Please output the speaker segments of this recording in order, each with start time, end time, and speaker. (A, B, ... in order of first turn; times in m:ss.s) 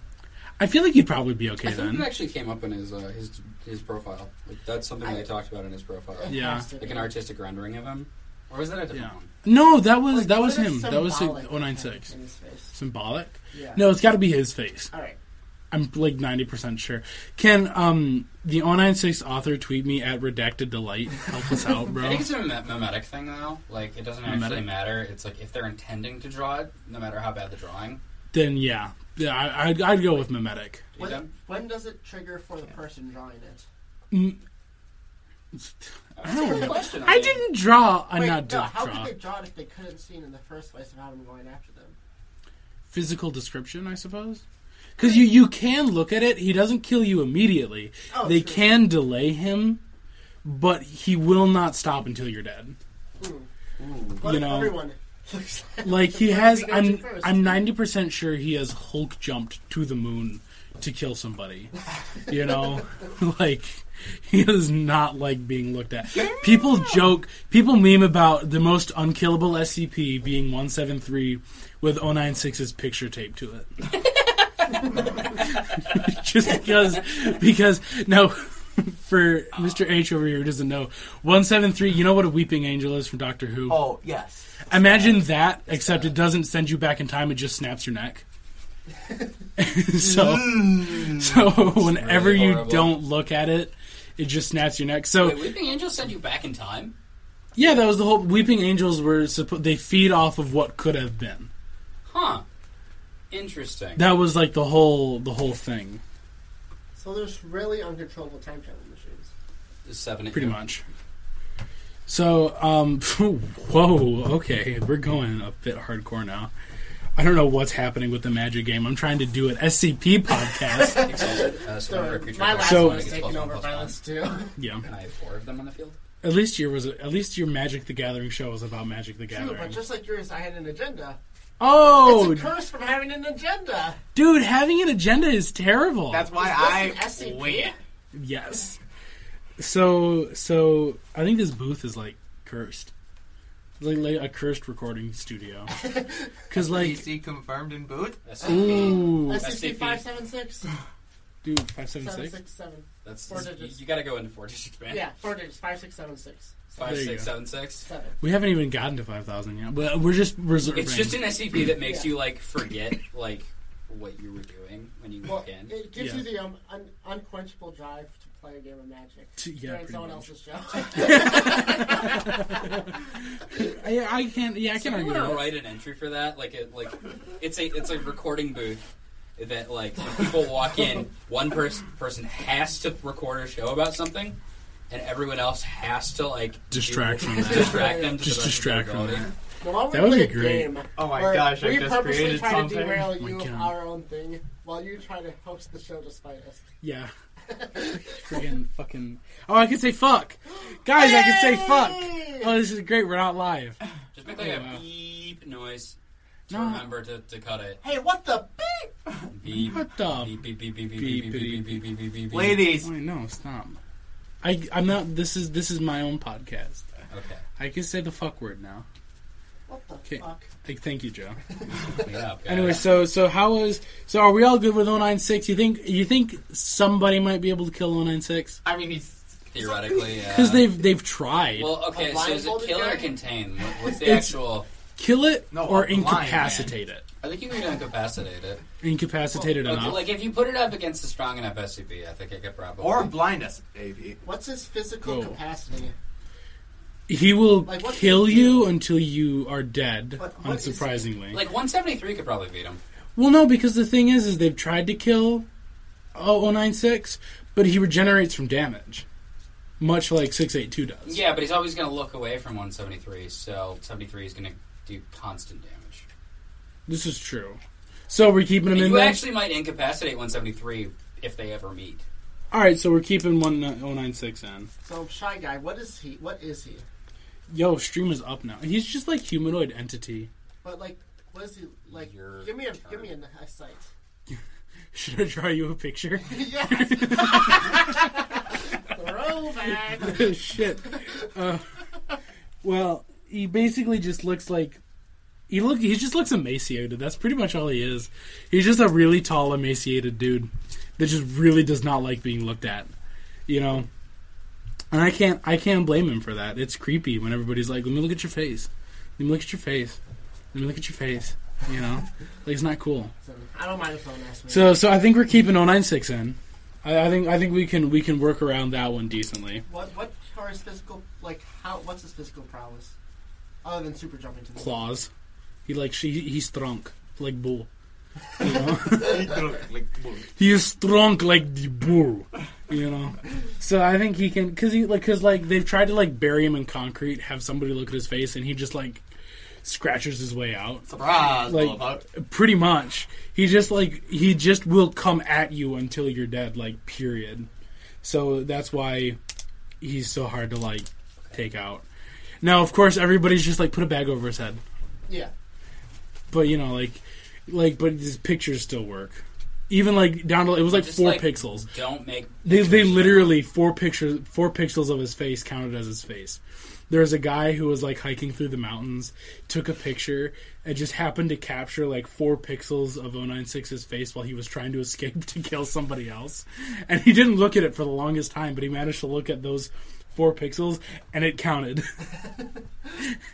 0:00.6-0:02.1 A
0:01.6-0:09.3 B
0:05.0-0:05.3 C
0:06.2-0:07.1 C
0:06.3-0:06.7 A
0:08.9-0:12.1 A
0:10.1-0:12.7 C
0:12.7-0:14.9 A
0:13.5-0:13.8 C
0:14.9-0:15.2 C
0:15.7-0:22.3 A
0:21.9-0:28.0 B
0:24.2-0:24.7 A
0:28.3-0:30.9 A
0:31.0-0:31.3 B
0:31.0-0:33.6 C
0:34.1-0:34.4 A
0:35.5-0:39.1 A
0:36.2-0:37.4 B
0:36.3-0:36.8 C
0:38.1-0:42.0 C
0:42.9-0:44.4 A
0:45.0-0:49.8 A
0:45.0-0:45.2 C
0:48.1-0:48.8 C
0:50.4-0:52.8 A
0:53.2-0:53.5 C
0:54.1-0:57.6 C
0:54.2-0:54.8 A
0:55.8-1:01.7 A
1:02.3-1:13.9 A
1:15.0-1:23.9 A
1:23.7-1:24.7 D
1:24.7-1:28.2 A
1:24.7-1:26.1 B
1:29.6-1:35.5 A
1:30.0-1:31.0 D
1:31.4-1:32.9 B
1:35.2-1:37.0 B
1:37.6-1:41.5 A
1:42.1-1:42.4 B
1:43.3-1:44.1 B
1:44.0-1:46.0 A
1:47.0-1:49.3 C
1:49.9-1:50.6 B
1:50.3-1:50.8 A
1:52.1-1:56.5 A
1:57.2-2:01.1 A
2:00.7-2:04.6 C
2:00.8-2:04.0 B
2:02.6-2:03.2 A
2:04.6-2:04.9 A
2:04.8-2:06.0 B
2:06.2-2:09.8 A
2:09.3-2:11.2 C
2:11.6-2:12.5 A
2:11.8-2:14.0 C
2:14.2-2:16.3 A
2:16.1-2:17.8 D
2:16.3-2:17.8 C
2:18.1-2:18.8 A
2:19.6-2:22.9 A
2:23.8-2:25.7 A
2:25.7-2:26.3 C
2:26.5-2:27.1 A
2:26.6-2:28.2 D
2:28.2-2:30.0 B
2:28.4-2:29.4 A
2:28.6-2:30.7 C
2:31.4-2:32.4 A
2:32.0-2:33.8 C
2:33.0-2:35.1 B
2:34.9-2:37.0 C
2:36.8-2:37.9 B
2:36.8-2:37.3 A
2:37.8-2:38.2 C
2:38.2-2:41.3 A
2:40.6-2:45.8 B
2:41.8-2:42.1 C
2:45.2-2:52.9 C
2:46.0-2:46.3 A
2:49.4-2:55.6 A
2:54.7-2:58.8 B
2:59.4-3:04.4 B
3:04.9-3:09.3 B
3:06.7-3:09.3 A
3:07.4-3:08.2 C
3:09.6-3:16.6 C
3:09.9-3:10.7 A
3:11.0-3:13.2 D
3:13.1-3:13.7 A
3:16.8-3:17.1 A
3:17.4-3:18.4 C
3:17.9-3:24.8 A
3:20.9-3:22.5 C
3:24.1-3:26.0 B
3:26.5-3:27.8 B
3:26.5-3:26.9 A
3:27.8-3:29.0 C
3:29.3-3:32.7 B
3:29.5-3:30.4 A
3:31.0-3:31.8 A
3:32.3-3:32.9 D
3:32.6-3:33.8 A
3:34.4-3:36.9 A
3:37.1-3:37.4 B
3:37.6-3:38.9 A
3:39.7-3:40.5 C
3:40.1-3:41.4 A
3:41.8-3:42.8 B
3:42.5-3:48.6 A
3:48.6-3:50.3 D
3:49.5-3:50.7 B
3:50.3-3:51.7 A
3:51.6-3:54.7 B
3:51.9-3:53.2 C
3:54.0-3:54.4 A
3:55.0-3:57.0 A
3:55.5-3:56.7 D
3:56.4-3:56.7 B
3:57.2-3:58.6 B
3:58.8-4:00.1 A
3:59.5-4:03.2 B
4:02.8-4:04.2 D
4:04.2-4:05.9 C
4:05.0-4:05.4 A
4:07.1-4:11.4 A
4:07.6-4:08.7 C
4:10.2-4:11.1 C
4:11.3-4:12.8 B
4:13.2-4:15.5 A
4:16.2-4:19.0 A
4:19.8-4:21.2 A
4:21.1-4:26.1 B
4:26.9-4:29.2 A
4:28.7-4:32.0 B
4:32.5-4:34.7 A
4:34.8-4:36.9 C
4:37.5-4:40.3 A
4:40.6-4:43.9 C
4:41.9-4:43.1 B
4:44.9-4:48.1 A
4:46.2-4:50.4 C
4:49.9-4:51.7 A
4:52.6-4:54.8 A
4:55.5-5:02.9 A
5:03.5-5:03.9 A
5:04.9-5:10.0 A
5:10.5-5:13.1 A
5:13.2-5:14.8 C
5:14.5-5:19.6 A
5:19.7-5:23.0 C
5:23.6-5:24.9 C
5:24.6-5:25.1 A
5:25.7-5:27.7 A
5:28.4-5:29.3 A
5:28.9-5:30.3 D
5:30.4-5:39.0 A
5:39.6-5:47.5 A
5:40.9-5:42.0 D
5:48.0-5:49.2 A
5:49.8-5:51.8 A
5:52.4-5:54.6 A
5:56.3-6:01.7 A
6:00.7-6:03.4 B
6:02.4-6:22.1 A